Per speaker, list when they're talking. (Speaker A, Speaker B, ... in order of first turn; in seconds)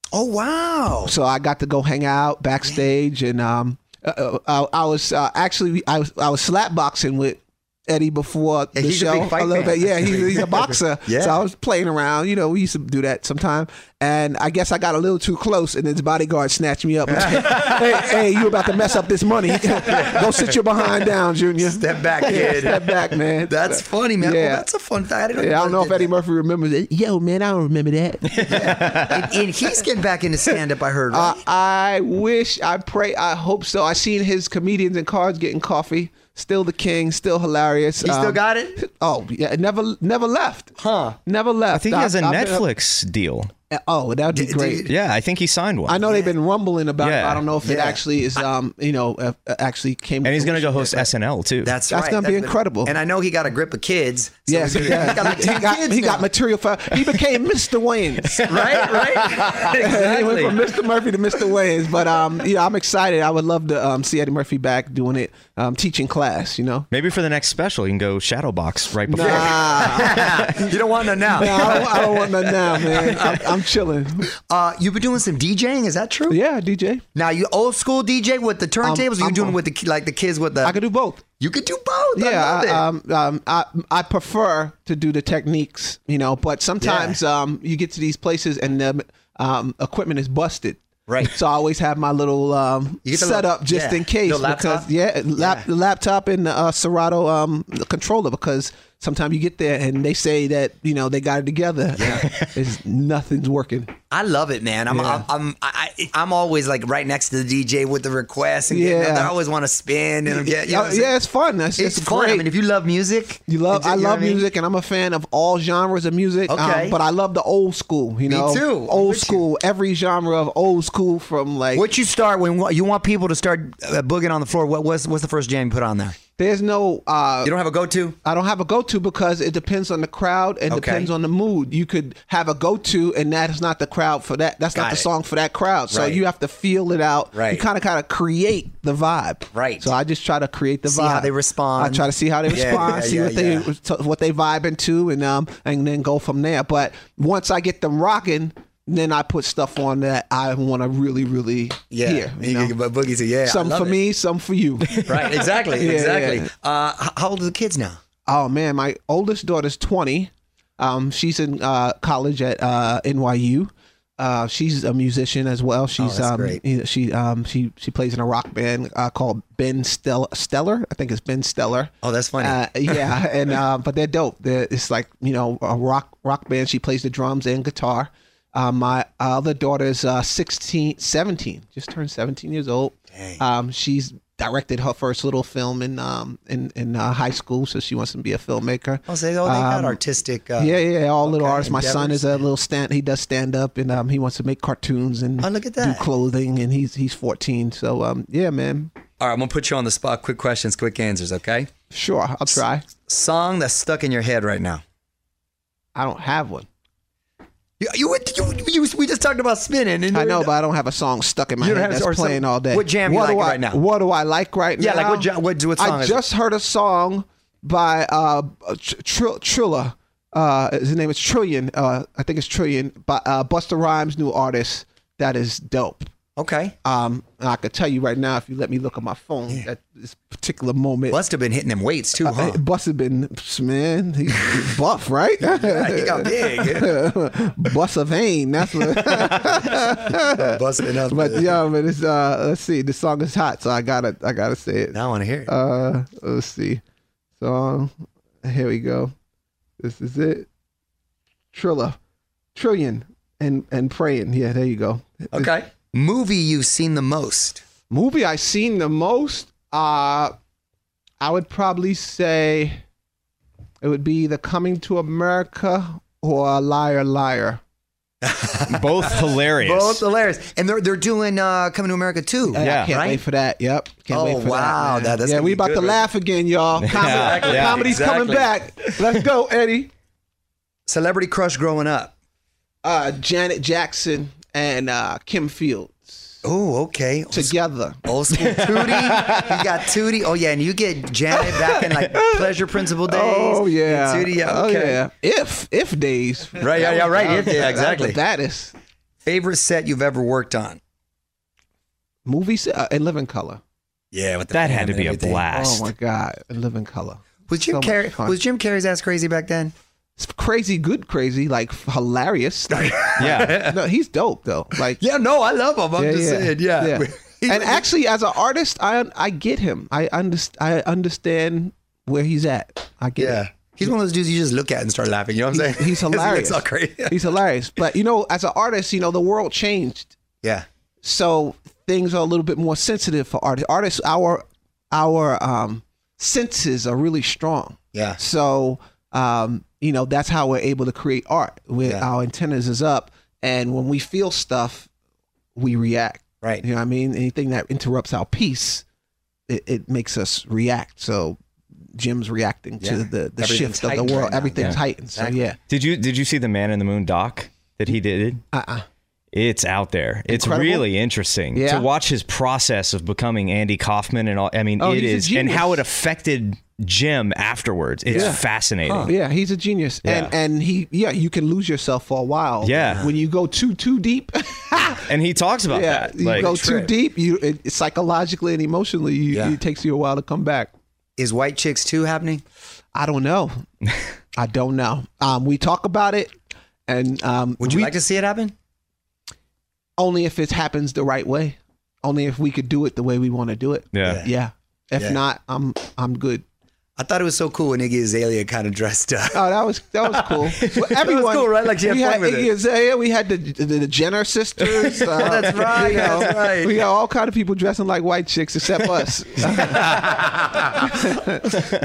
Speaker A: 0.1-1.1, 8.7-11.4, 17.1-17.8, 19.8-20.6, 21.6-26.1, 28.5-31.4, 38.0-38.8, 40.8-41.2, 44.3-45.0, 46.0-46.3, 47.6-48.4, 51.6-56.3, 58.5-60.6, 69.2-73.5, 74.5-76.4, 77.2-80.8, 81.4-82.8, 86.8-87.2, 91.1-91.3, 93.0-95.7, 102.0-102.3, 104.1-111.1, 111.8-114.5, 116.5-117.0, 118.3-119.5, 121.7-126.2, 127.4-128.2, 130.7-131.1, 134.7-135.1, 135.9-136.2, 137.3-137.7, 139.5-139.9, 140.9-143.7, 151.9-154.0, 155.1-158.0, 166.0-166.6, 172.0-173.1, 183.1-183.4, 189.1-192.4, 195.4-196.1, 199.2-201.7, 203.1-204.8, 207.8-210.5, 211.6-213.8, 214.8-216.2, 226.4-226.8, 231.1-232.6, 235.4-237.0, 239.1-239.6, 240.1-241.6, 244.9-245.5, 255.3-257.6, 268.2-273.2, 274.1-276.1, 276.9-278.6, 280.9-282.1, 286.4-295.0, 296.6-298.2, 299.2-300.8, 304.1-305.5, 307.5-309.7, 312.7-313.8, 314.9-317.9, 323.2-327.2, 337.9-338.2, 352.8-355.5, 368.1-369.1, 376.3-376.9, 379.3-379.6, 381.2-382.4, 387.6-388.5, 394.0-394.3, 397.0-399.5, 400.1-402.5, 404.8-406.8, 409.7-411.0
Speaker B: 1.0-24.7, 25.3-28.8, 31.1-40.7, 41.3-42.6, 43.7-45.0, 45.9-51.1, 51.9-53.0, 54.5-58.8, 59.7-66.9, 69.1-70.5, 71.3-74.3, 76.3-77.0, 78.8-79.6, 80.6-81.2, 82.2-103.9, 104.9-105.3, 108.7-109.3, 110.3-112.5, 113.5-121.9, 126.4-127.6, 128.2-152.8, 153.4-156.5, 158.3-190.0, 190.6-198.9, 201.9-202.8, 205.9-206.7, 210.1-226.1, 226.8-231.2, 232.2-246.8, 247.4-249.1, 249.8-250.5, 251.5-252.0, 252.6-255.5, 257.9-260.4, 261.2-262.8, 263.8-267.6, 272.5-279.9, 282.8-286.4, 287.3-288.3, 291.3-298.8, 302.3-303.6, 305.5-308.4, 310.2-315.0, 316.0-323.9, 325.5-330.1, 331.0-344.9, 345.6-348.8, 349.5-351.4, 351.9-355.6, 358.5-358.9, 360.3-360.9, 361.5-361.9, 364.8-365.8, 368.1-368.4, 369.1-375.1, 375.7-380.7, 382.9-383.6, 384.4-386.3, 386.9-388.0, 390.0-396.4, 399.3-410.2, 410.9-411.6
Speaker C: 28.5-29.1, 41.7-43.5, 44.9-46.0, 47.0-47.5, 50.2-51.8, 58.3-59.1, 66.9-70.5, 268.7-270.0, 272.6-273.0, 276.8-277.8, 288.4-289.5, 304.5-305.9, 313.2-313.6, 355.7-358.4, 359.3-369.1, 370.0-370.3, 372.6-373.0, 375.0-376.5